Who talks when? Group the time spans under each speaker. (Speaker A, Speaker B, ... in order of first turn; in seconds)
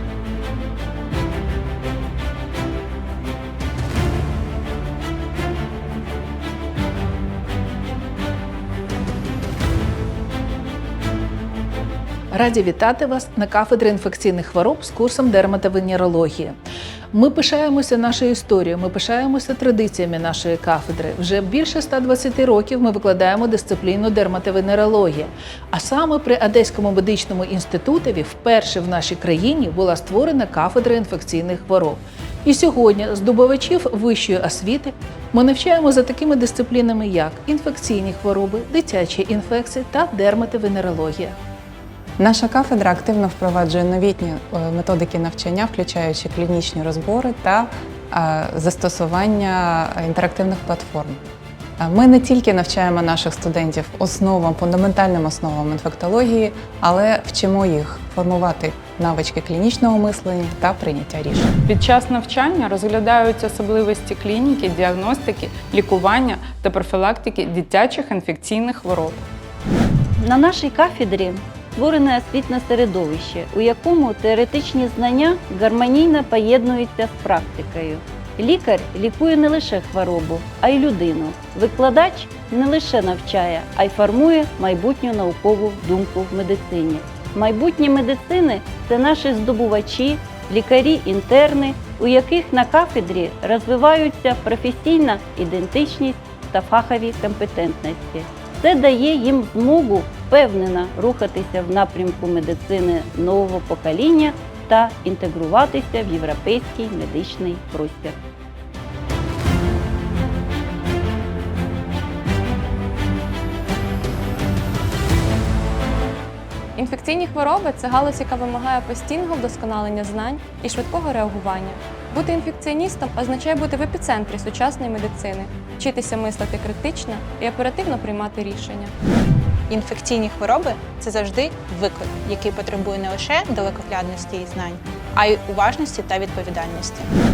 Speaker A: 12.3-16.6, 17.1-41.3
Speaker B: 42.2-51.2, 51.8-61.5
Speaker C: 61.7-69.2
Speaker D: 70.2-108.2
Speaker E: 116.8-128.9
Speaker F: 129.7-137.1